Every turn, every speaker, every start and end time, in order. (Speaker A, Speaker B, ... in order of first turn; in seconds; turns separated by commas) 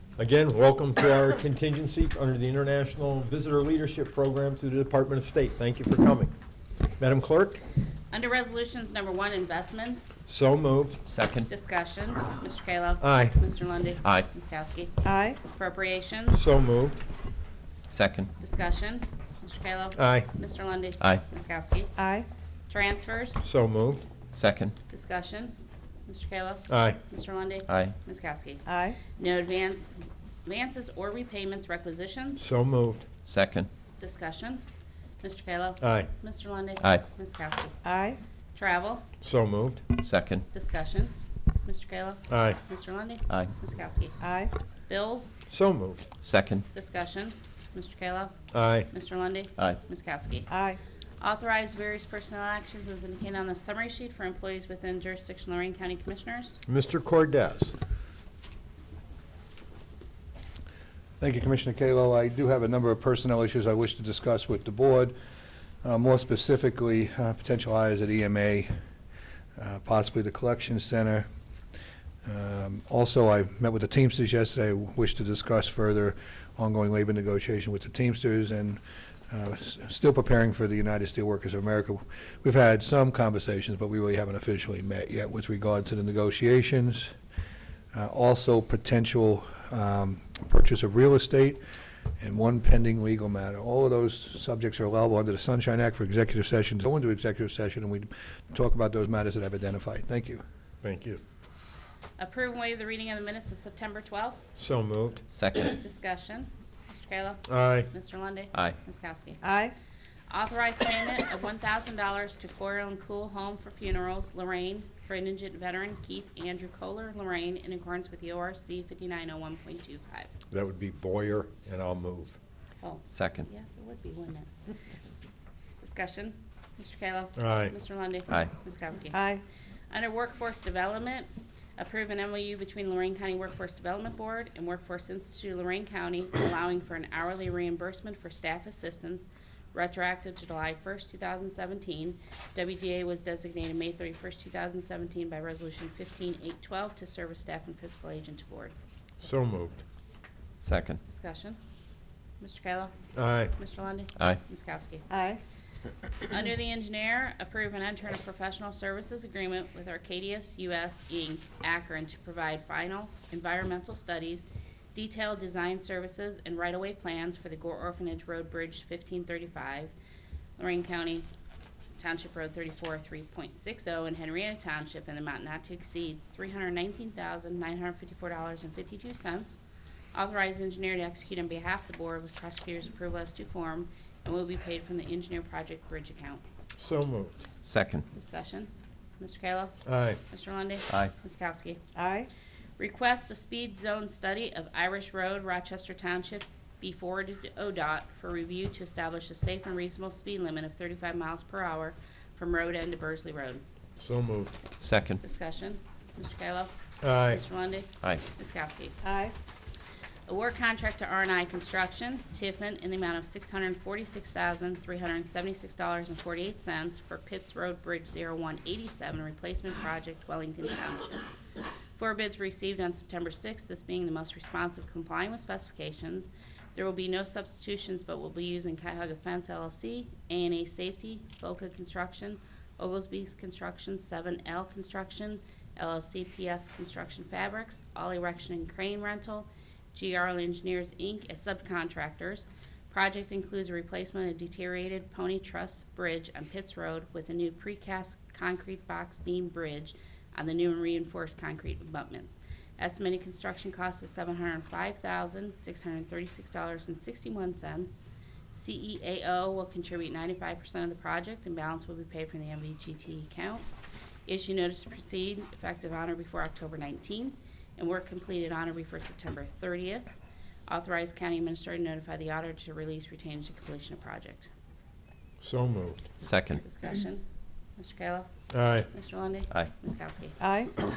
Speaker A: 0.2-6.3, Speaker A: 7.0-7.6, Speaker B: 8.1-10.2, Speaker A: 10.3-11.0, Speaker C: 11.1-11.5, Speaker B: 11.5-16.5, Speaker A: 13.0-13.4, Speaker D: 15.0-15.4, Speaker A: 16.3-17.0, Speaker C: 17.9-18.3, Speaker B: 18.4-21.9, Speaker A: 19.9-20.3, Speaker D: 22.0-22.3, Speaker B: 22.7-23.4, Speaker A: 23.4-24.0, Speaker C: 24.3-24.7, Speaker B: 24.9-25.5, Speaker B: 26.1-28.6, Speaker A: 26.7-27.0, Speaker C: 27.7-27.9, Speaker D: 28.7-29.0, Speaker B: 29.1-32.4, Speaker A: 32.4-33.1, Speaker C: 33.2-33.7, Speaker B: 34.0-34.6, Speaker B: 35.2-37.7, Speaker A: 35.8-36.1, Speaker D: 37.8-38.2, Speaker B: 38.5-39.0, Speaker A: 39.2-39.8, Speaker C: 40.0-40.4, Speaker B: 40.5-44.2, Speaker A: 42.3-42.6, Speaker D: 44.2-44.5, Speaker B: 44.9-45.4, Speaker A: 45.5-46.1, Speaker C: 46.2-46.6, Speaker B: 46.7-50.5, Speaker A: 48.5-48.9, Speaker D: 50.5-50.8, Speaker B: 51.2-56.6, Speaker A: 56.7-57.8, Speaker E: 61.2-65.1, Speaker E: 65.8-68.7, Speaker E: 69.6-71.3, Speaker E: 72.2-87.1, Speaker E: 87.9-91.6, Speaker E: 92.2-100.4, Speaker A: 100.8-101.2, Speaker B: 102.2-104.4, Speaker A: 104.6-105.2, Speaker C: 105.3-105.8, Speaker B: 105.7-109.4, Speaker A: 107.5-107.9, Speaker D: 109.4-109.7, Speaker B: 110.3-120.3, Speaker A: 120.5-122.4, Speaker B: 122.8-124.5, Speaker C: 123.1-123.5, Speaker B: 125.8-129.2, Speaker A: 127.4-127.7, Speaker D: 129.1-129.4, Speaker B: 129.9-148.7, Speaker A: 149.2-149.8, Speaker C: 150.6-151.0, Speaker B: 151.0-151.6, Speaker B: 152.4-152.9, Speaker A: 153.1-153.5, Speaker B: 153.5-155.1, Speaker D: 155.1-155.4, Speaker B: 156.2-169.9, Speaker B: 170.6-171.3, Speaker B: 172.0-179.6, Speaker B: 180.1-186.4, Speaker A: 186.8-187.3, Speaker C: 187.6-188.1, Speaker B: 188.1-189.7, Speaker A: 189.8-190.2, Speaker B: 190.3-191.8, Speaker D: 191.9-192.3, Speaker B: 192.8-203.6, Speaker A: 204.0-204.5, Speaker C: 204.8-205.2, Speaker B: 205.2-208.9, Speaker A: 207.0-207.4, Speaker D: 209.0-209.3, Speaker B: 210.3-221.2, Speaker B: 221.9-263.7, Speaker B: 264.2-270.1, Speaker B: 270.7-274.5, Speaker A: 275.4-276.1, Speaker C: 276.2-276.6, Speaker B: 276.6-277.2, Speaker B: 277.8-278.3, Speaker A: 278.5-278.9, Speaker B: 278.9-280.4, Speaker D: 280.4-280.7